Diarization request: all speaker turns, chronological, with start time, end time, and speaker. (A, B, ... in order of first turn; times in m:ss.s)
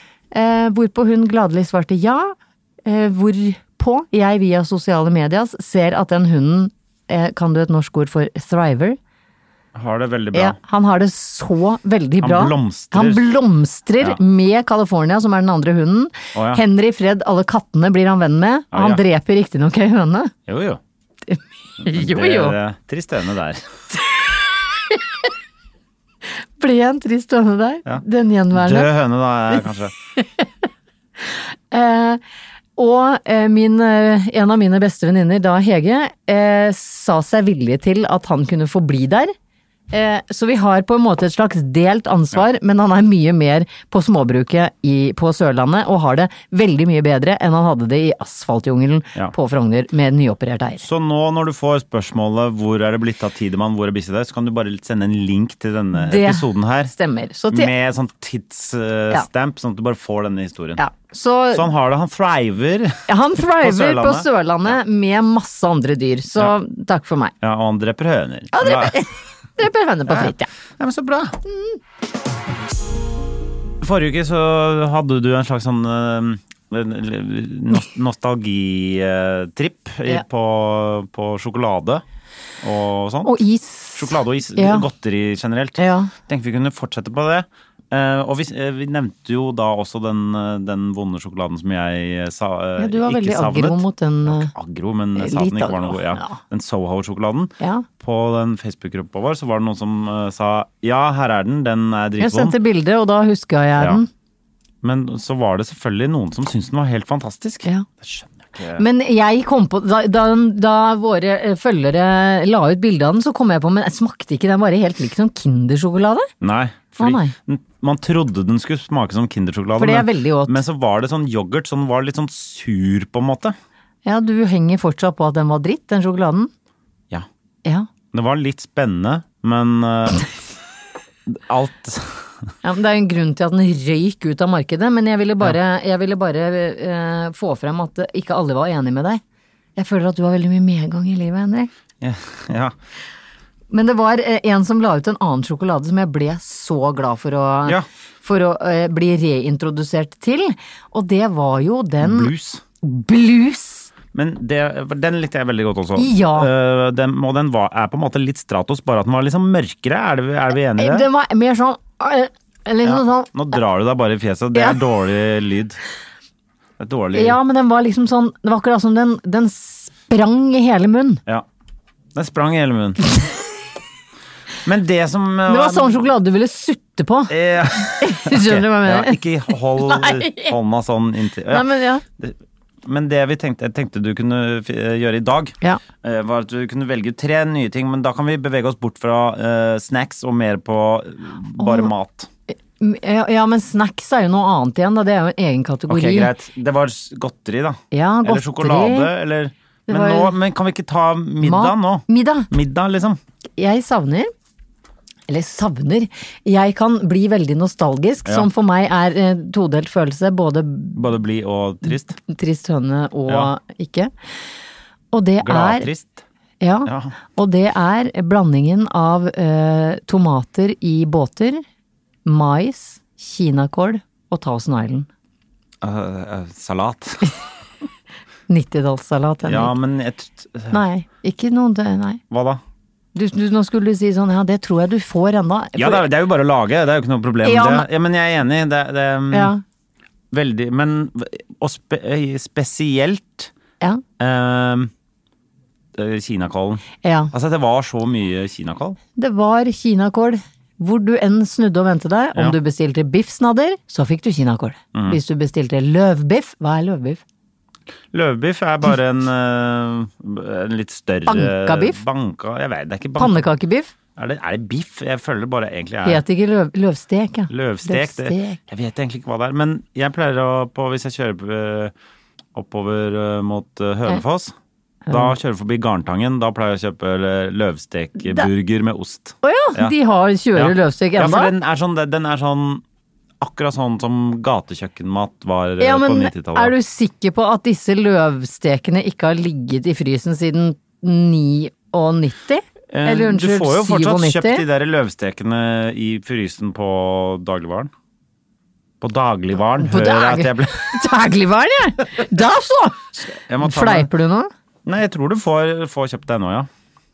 0:00.3-0:09.0 A
0:09.7-0:10.6 B
0:10.3-0:20.3 A
0:12.2-0:13.2 B
0:16.3-0:16.6 B
0:18.7-0:19.0 B
0:20.5-0:20.8 B
0:21.3-0:22.6 A
0:21.8-0:23.6 B
0:26.6-0:28.9 A
0:27.8-0:29.9 B
0:30.2-0:30.5 A
0:31.2-0:32.2 A
0:32.8-0:39.3 A
0:39.9-0:50.8 A
0:50.8-0:56.9 B
0:55.9-0:57.7 A
0:57.5-1:00.8 B
1:00.8-1:01.7 A
1:01.5-1:04.7 B
1:03.1-1:07.3 A
1:07.4-1:09.0 B
1:08.5-1:10.5 A
1:10.1-1:11.4 B
1:11.4-1:11.8 A
1:13.8-1:22.0 B
1:22.6-1:23.4 B
1:23.2-1:24.8 A
1:23.9-1:42.6 B
1:25.8-1:26.1 A
1:32.8-1:34.5 A
1:35.2-1:36.4 A
1:37.6-1:37.8 A
1:42.2-1:44.1 A
1:44.8-1:48.8 B
1:48.8-1:56.3 A
1:56.4-2:03.6 B
1:57.0-1:57.3 A
1:59.8-2:00.6 A
2:04.0-2:06.5 A
2:08.1-2:10.2 B
2:11.3-2:12.5 B
2:12.6-2:19.2 A
2:19.8-2:21.7 A
2:22.0-2:22.7 B
2:23.7-2:33.9 A
2:32.0-2:32.6 B
2:34.1-2:41.1 B
2:36.0-2:36.5 A
2:40.8-2:43.3 A
2:42.8-2:45.8 B
2:46.8-2:47.4 B
2:47.1-2:51.2 A
2:52.1-2:53.0 B
2:54.6-2:56.1 B
2:55.5-2:59.2 A
2:57.3-3:12.3 B
2:59.8-3:00.6 A
3:01.5-3:02.0 A
3:11.6-3:11.9 A
3:12.8-3:16.3 A
3:15.9-3:23.2 B
3:17.9-3:19.1 A
3:19.9-3:20.3 A
3:21.4-3:22.5 A
3:23.6-3:24.3 A
3:25.3-3:31.0 A
3:30.9-3:32.2 B
3:31.8-3:34.1 A
3:35.1-3:35.9 A
3:35.4-3:36.2 B
3:36.6-3:41.6 A
3:36.8-3:37.2 B
3:42.2-3:45.1 A
3:45.8-3:47.3 B
3:48.5-3:49.7 A
3:49.4-3:50.8 B
3:50.7-3:52.2 A
3:52.3-3:52.6 B
3:53.1-3:56.1 A
3:55.8-3:59.5 B
3:57.4-3:57.9 A
3:59.3-3:59.6 A
4:00.3-4:03.5 B
4:04.2-4:04.9 B
4:05.9-4:09.0 B
4:07.0-4:07.3 A
4:09.2-4:17.2 A
4:14.9-4:15.2 B
4:18.1-4:23.5 B
4:21.3-4:22.0 A
4:23.2-4:23.9 A
4:24.2-4:26.2 B
4:26.0-4:28.6 A
4:27.5-4:31.9 B
4:32.5-4:34.5 B
4:35.1-4:35.3 A
4:35.1-4:39.9 B
4:38.2-4:38.5 A
4:39.4-4:41.5 A
4:40.5-4:42.8 B
4:43.4-4:46.7 B
4:45.8-4:54.6 A
4:52.9-4:57.9 B
4:59.0-5:01.0 B
4:59.8-5:04.5 A
5:03.2-5:04.1 B
5:04.8-5:06.7 B